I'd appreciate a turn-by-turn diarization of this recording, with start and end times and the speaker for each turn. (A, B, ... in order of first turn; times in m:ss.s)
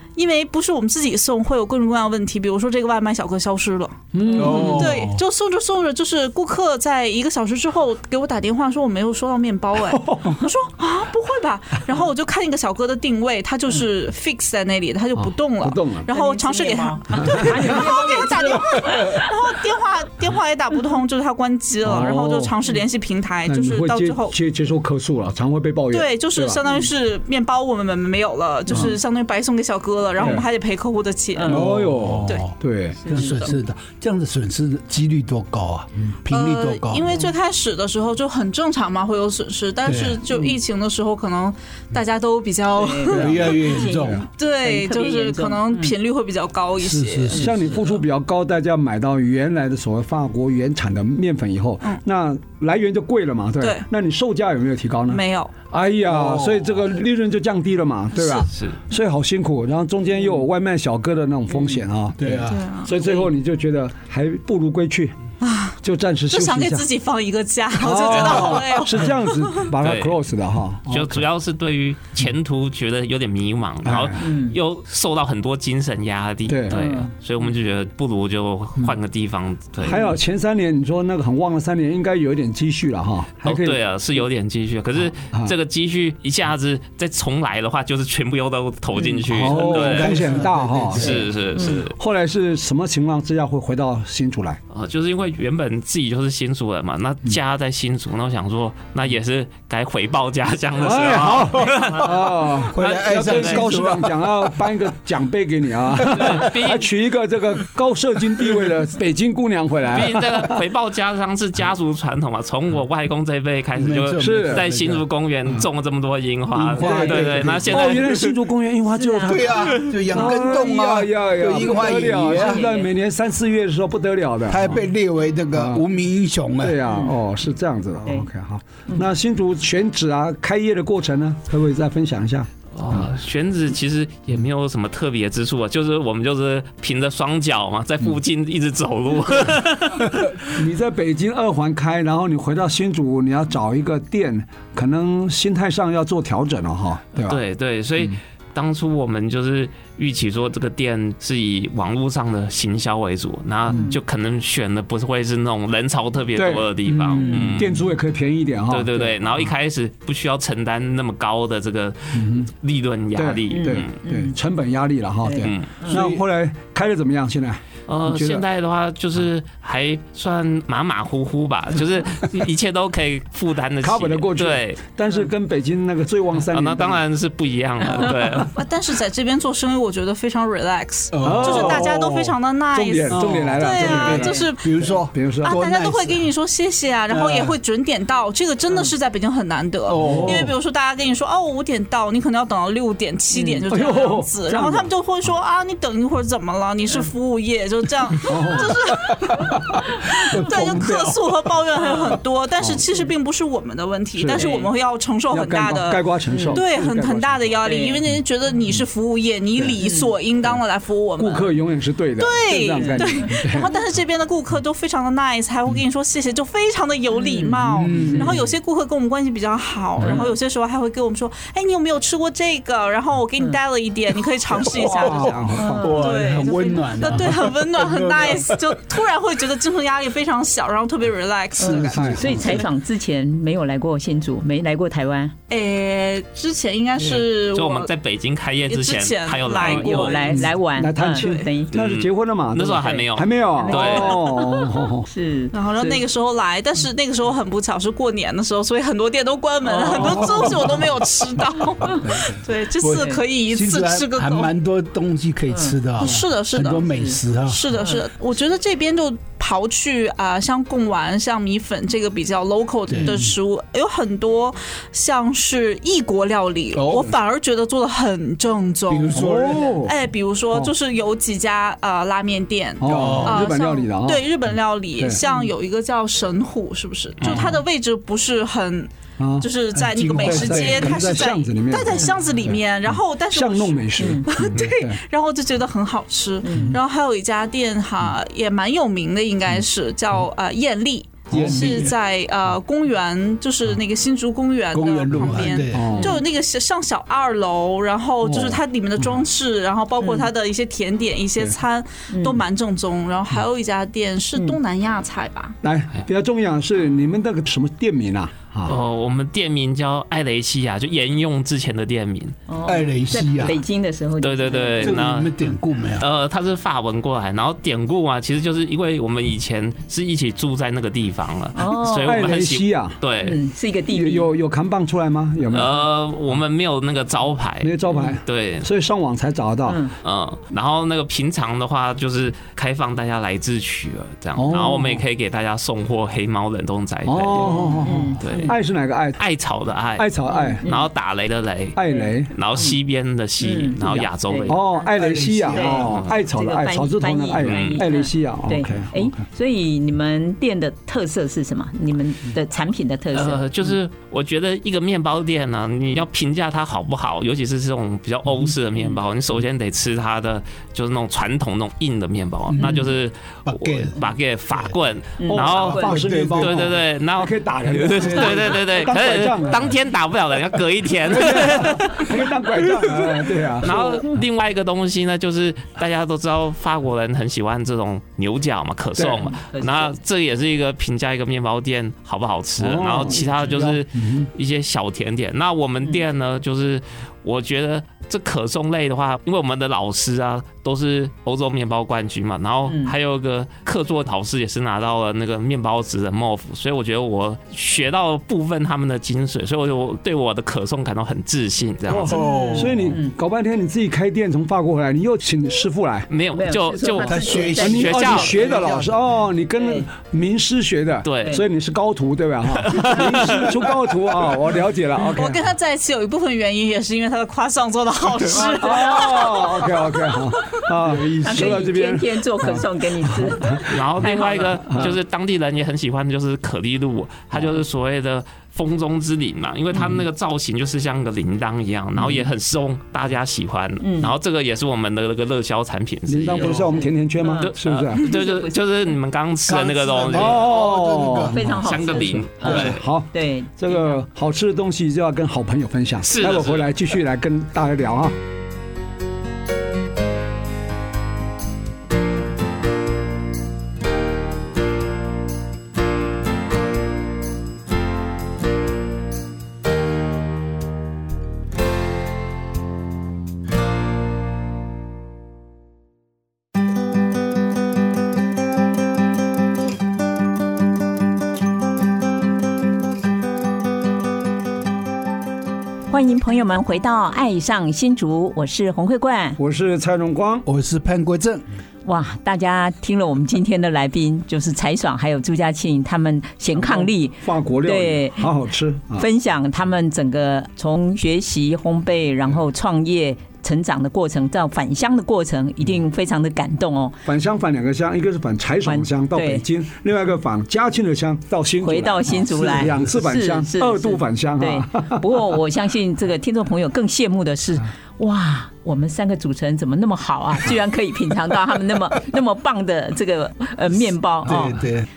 0:00.2-0:24.3 A
0:04.1-0:05.0 B
0:04.2-0:04.9 C
0:04.3-0:05.2 D
0:09.8-0:10.4 B
0:15.2-0:16.0 B
0:16.1-0:19.3 C
0:17.2-0:17.8 B
0:21.8-0:22.5 B
0:23.5-0:26.6 B
0:25.9-0:32.5 A
0:28.7-0:28.9 C
0:30.2-0:30.4 B
0:31.3-0:31.7 C
0:31.5-0:33.0 B
0:31.6-0:32.5 D
0:33.0-0:33.5 C
0:33.0-0:37.2 D
0:33.1-0:33.5 A
0:36.3-0:47.4 A
0:39.8-0:40.2 D
0:40.3-0:40.6 C
0:42.7-0:46.0 C
0:43.1-0:44.2 D
0:43.1-0:44.2 B
0:46.8-0:47.7 D
0:47.3-1:05.1 B
0:53.6-0:53.8 A
0:55.1-0:55.5 A
0:56.1-0:56.7 D
0:58.5-0:58.8 E
1:01.5-1:01.8 C
1:02.2-1:02.6 D
1:02.5-1:03.1 A
1:05.4-1:05.8 A
1:05.8-1:06.8 B
1:06.3-1:09.7 A
1:07.8-1:11.2 B
1:09.8-1:10.1 E
1:10.9-1:20.0 E
1:13.8-1:14.2 B
1:14.2-1:14.6 C
1:16.5-1:16.8 B
1:16.7-1:17.1 C
1:19.8-1:23.8 B
1:23.4-1:30.4 E
1:25.2-1:25.5 B
1:29.2-1:34.6 B
1:29.5-1:31.2 D
1:30.9-1:32.0 E
1:34.7-1:43.7 E
1:40.8-1:50.6 B
1:42.7-1:44.5 D
1:46.1-1:46.9 E
1:49.9-1:58.4 E
1:53.8-1:55.0 D
1:54.2-1:54.8 B
1:56.5-1:58.0 D
1:56.8-2:04.8 B
1:58.9-1:59.5 C
1:59.2-2:02.6 D
2:00.2-2:00.6 C
2:02.2-2:02.9 C
2:04.5-2:06.8 D
2:05.5-2:05.8 B
2:06.6-2:13.1 B
2:06.8-2:07.1 C
2:12.7-2:20.5 E
2:20.5-2:27.4 B
2:27.2-2:37.8 E
2:33.7-2:34.0 C
2:36.4-2:39.2 B
2:37.2-2:37.6 C
2:38.7-2:43.9 E
2:42.1-2:42.5 B
2:43.1-2:48.4 B
2:43.5-2:44.4 C
2:45.2-2:46.0 C
2:45.4-2:45.7 E
2:45.9-2:46.2 D
2:47.9-2:54.8 E
2:53.8-2:57.0 B
2:56.5-2:58.5 E
2:57.8-2:58.5 B
2:58.5-3:19.5 A
3:01.1-3:02.3 D
3:01.2-3:02.1 B
3:02.7-3:04.3 B
3:03.1-3:06.3 D
3:03.9-3:04.5 C
3:05.1-3:05.6 B
3:07.1-3:07.6 D
3:09.9-3:10.5 D
3:09.9-3:10.5 B
3:13.3-3:13.6 C
3:13.7-3:14.9 B
3:18.2-3:19.8 B
3:20.3-3:21.3 D
3:20.3-3:31.6 A
3:21.8-3:22.2 C
3:24.2-3:24.5 B
3:24.3-3:24.7 C
3:25.3-3:27.4 B
3:26.3-3:26.6 C
3:27.6-3:28.0 C
3:29.8-3:30.1 C
3:31.2-3:33.7 B
3:32.2-3:52.3 A
3:32.7-3:33.4 C
3:37.1-3:38.3 C
3:37.7-3:38.4 D
3:40.0-3:40.3 C
3:44.7-3:48.8 D
3:44.7-3:46.2 B
3:45.6-3:46.1 C
3:51.6-3:55.3 C
3:51.6-3:52.6 D
3:51.9-3:52.6 B
3:55.5-3:57.9 A
3:57.4-4:00.4 E
3:58.7-4:00.4 A
3:59.5-4:01.7 C
4:00.3-4:05.1 B
4:01.7-4:04.2 E
4:02.8-4:06.0 C
4:05.5-4:14.5 A
4:09.6-4:10.5 C
4:10.0-4:10.7 B
4:12.0-4:17.7 D
4:12.9-4:13.2 C
4:15.5-4:15.8 C
4:16.0-4:16.9 A
4:16.9-4:17.2 C
4:17.4-5:05.6 A
4:17.7-4:18.0 C
4:22.9-4:23.3 D
4:26.7-4:27.1 D
4:28.9-4:29.8 D
4:29.1-4:29.9 B
4:32.8-4:34.2 B
4:32.8-4:33.5 D
4:37.2-4:37.6 E
4:39.2-4:39.5 B
4:39.7-4:41.3 D
4:40.2-4:45.0 B
4:44.0-4:44.3 C
4:46.4-4:46.8 C
4:46.5-4:46.8 B
4:51.3-4:51.9 B
4:51.3-4:51.9 D
4:54.7-4:56.0 D
4:55.2-4:56.2 B
4:56.0-4:56.2 C
4:58.2-4:58.6 B
5:00.0-5:00.3 C
5:02.1-5:02.4 C
5:05.6-5:08.8 B
5:08.6-5:12.4 E
5:12.5-5:15.0 C
5:12.6-5:13.6 D
5:14.2-5:15.3 E
5:14.8-5:16.0 D
5:16.0-5:23.4 E
5:21.5-5:22.2 C
5:22.0-5:23.0 B
5:23.2-5:24.3 C
5:23.9-5:25.8 B
5:25.5-5:28.7 E
5:27.6-5:29.8 B
5:27.9-5:28.1 C
5:29.6-5:29.9 C
5:30.0-5:37.6 E
5:34.4-5:35.0 B
5:37.0-5:39.2 B
5:37.4-5:38.6 C
5:38.2-5:38.5 E
5:39.2-5:40.1 E
5:40.0-5:40.6 B
5:40.3-5:40.9 C
5:40.6-5:41.8 E
5:41.7-5:42.3 B
5:41.9-5:42.8 C
5:42.3-5:44.6 E
5:43.4-5:44.9 C
5:43.8-5:49.2 B
5:44.9-5:46.0 D
5:45.5-5:53.4 C
5:45.7-5:46.2 E
5:47.4-5:47.8 E
5:53.1-6:42.2 E
6:03.4-6:04.7 D
6:05.2-6:06.0 C
6:05.3-6:09.7 B
6:05.9-6:06.7 D
6:11.1-6:14.1 B
6:19.0-6:19.3 B
6:19.2-6:19.9 C
6:22.6-6:24.3 B
6:32.7-6:32.9 C
6:41.9-6:46.1 B
6:42.1-6:42.9 D
6:42.1-6:43.1 C
6:46.1-6:48.4 E
6:46.3-6:48.6 C
6:47.0-6:49.1 D
6:47.6-6:55.4 B
6:49.6-6:49.9 C
6:51.0-6:51.4 E
6:52.5-6:53.6 E
6:55.1-6:59.9 A
6:58.3-7:04.9 B
7:00.8-7:01.5 D
7:01.2-7:04.9 C
7:03.6-7:16.7 E
7:12.0-7:12.2 B
7:13.8-7:14.2 C
7:16.1-7:18.1 B
7:16.4-7:18.6 C
7:17.4-7:20.5 E
7:19.4-7:21.4 D
7:20.1-7:21.6 B
7:21.1-7:24.0 C
7:21.6-7:22.8 E
7:22.4-7:28.1 B
7:26.0-7:26.7 E
7:55.9-7:59.4 C
7:59.4-8:00.4 B
8:00.4-8:01.4 D
8:01.8-8:08.3 C
8:06.5-8:09.1 B
8:09.0-8:17.0 C
8:17.0-8:25.2 B
8:18.6-8:19.4 C
8:21.6-8:34.6 C
8:34.2-8:34.8 D